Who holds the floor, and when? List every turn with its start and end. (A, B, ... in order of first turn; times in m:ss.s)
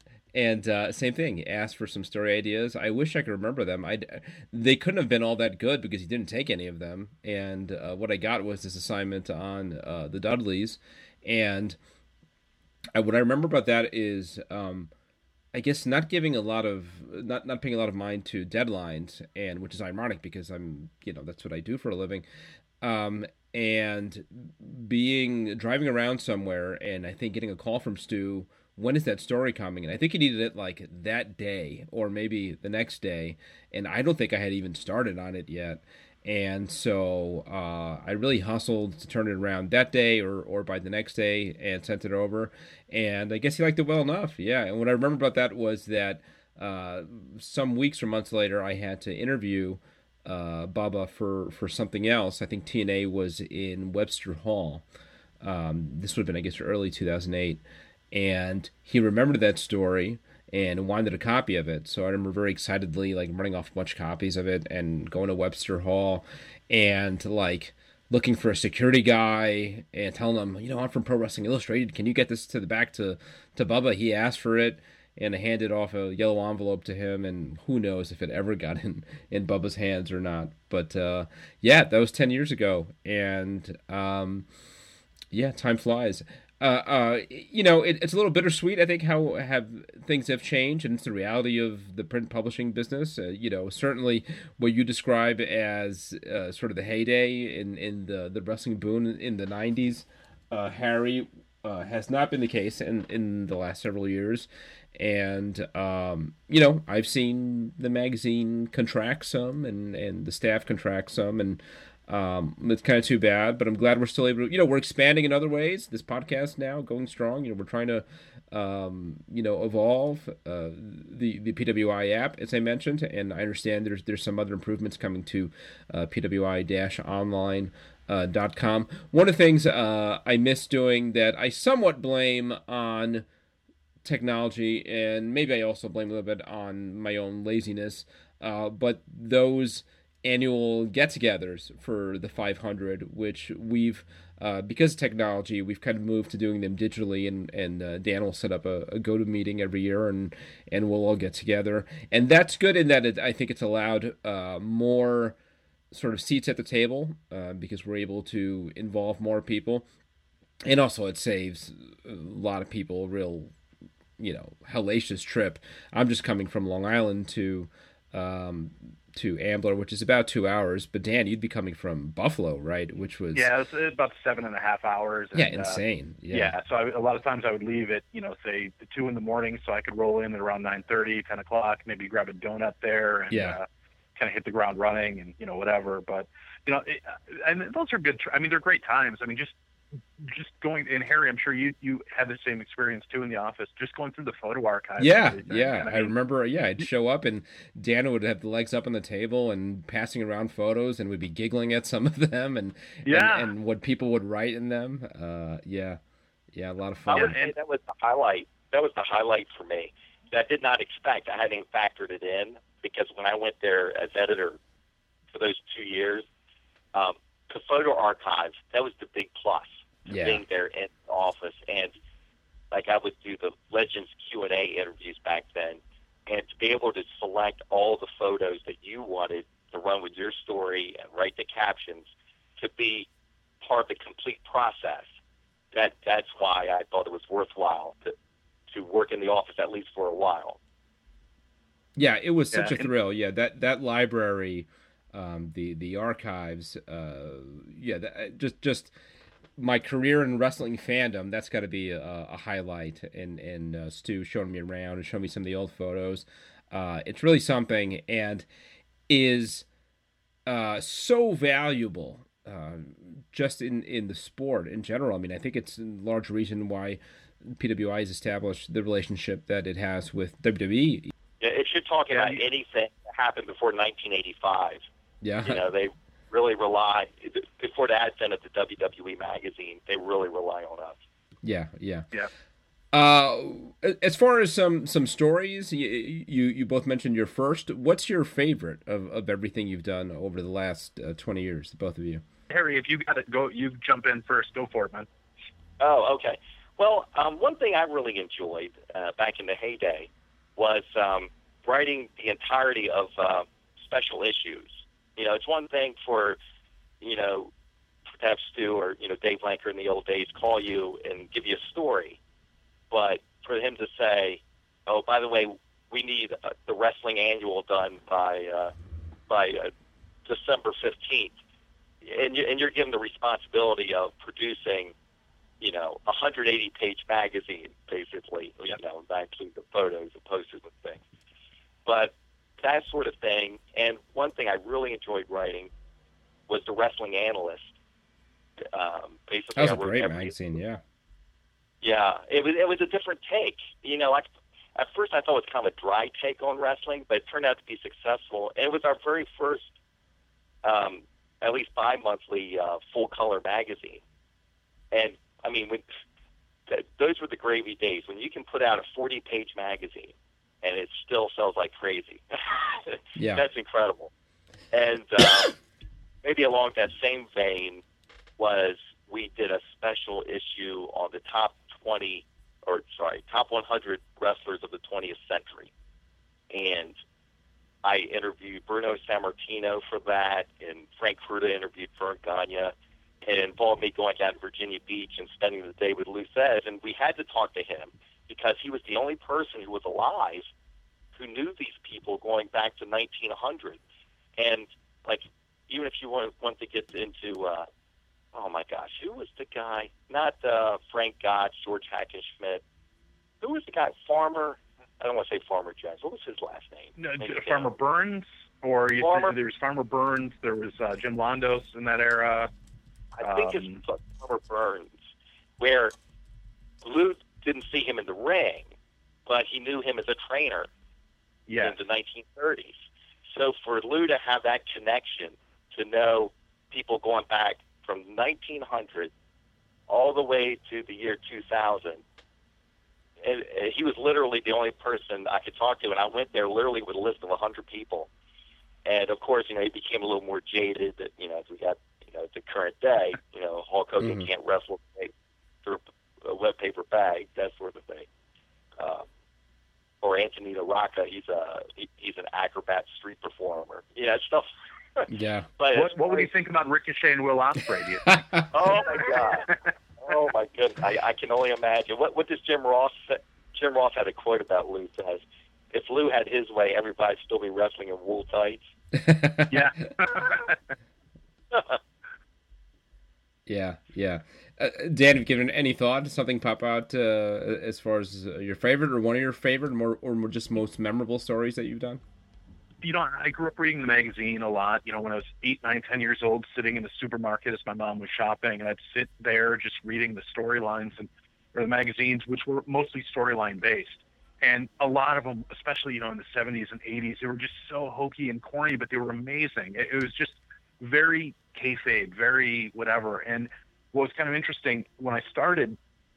0:00.3-0:11.8 A
0:12.9-0:14.9 A
0:15.5-0:22.2 A
0:22.8-0:54.8 A
0:55.4-1:24.5 A
1:25.3-2:13.3 A
2:14.0-2:35.4 A
2:35.9-2:39.9 A
2:40.7-2:43.5 A
2:44.2-2:53.5 A
2:53.3-3:09.6 B
2:55.4-2:56.6 A
3:03.3-3:03.6 A
3:10.2-3:16.1 B
3:15.0-3:26.0 A
3:23.1-3:23.5 B
3:26.5-3:27.4 A
3:27.1-3:34.6 C
3:27.1-3:27.5 B
3:35.3-3:36.3 C
3:36.9-3:41.9 C
3:40.1-3:40.4 A
3:42.7-3:53.1 C
3:53.6-3:55.1 C
3:55.7-3:58.1 C
3:58.7-4:00.6 C
4:02.0-4:08.9 A
4:02.5-4:02.9 B
4:09.6-4:18.5 A
4:19.1-4:19.7 A
4:20.5-4:31.1 A
4:31.4-4:34.8 C
4:32.1-4:32.4 B
4:35.2-4:35.6 A
4:35.4-4:41.0 C
4:41.4-4:42.1 A
4:42.9-4:52.2 A
4:52.5-4:55.1 B
4:55.8-5:06.4 C
5:07.0-5:07.5 C
5:08.2-5:12.2 C
5:12.9-5:18.7 C
5:19.3-5:19.7 C
5:20.3-5:21.4 C
5:22.0-5:24.9 C
5:25.6-5:31.0 C
5:31.9-5:35.7 C
5:36.5-5:37.7 C
5:38.6-5:40.3 C
5:39.6-5:40.8 A
5:41.8-5:49.7 C
5:50.6-5:54.0 C
5:54.9-5:55.8 C
5:56.7-6:04.1 C
6:03.2-6:03.4 A
6:04.7-6:05.5 C
6:06.2-6:07.8 C
6:08.4-6:15.7 C
6:16.5-6:17.0 C
6:17.8-6:22.7 C
6:23.2-6:30.5 C
6:31.2-6:33.8 C
6:34.4-6:37.7 C
6:38.3-6:42.6 C
6:43.4-6:47.7 C
6:47.0-6:52.5 B
6:49.0-6:49.4 C
6:53.2-6:55.1 C
6:53.2-6:53.8 B
6:55.6-6:55.9 C
6:56.8-6:58.7 C
6:59.3-7:00.7 C
7:01.5-7:01.8 B
7:01.6-7:02.8 C
7:03.3-7:09.1 C
7:09.9-7:12.0 C
7:13.2-7:18.1 C
7:18.9-7:25.1 C
7:24.0-7:24.3 A
7:25.6-7:28.1 C
7:28.8-7:29.0 C
7:30.0-7:36.3 C
7:35.1-7:35.5 A
7:35.7-7:38.1 B
7:38.1-7:38.4 A
7:38.5-7:48.7 C
7:48.9-7:49.6 A
7:49.5-7:50.6 B
7:51.5-7:51.8 C
7:53.5-8:02.0 A
8:02.8-8:25.8 B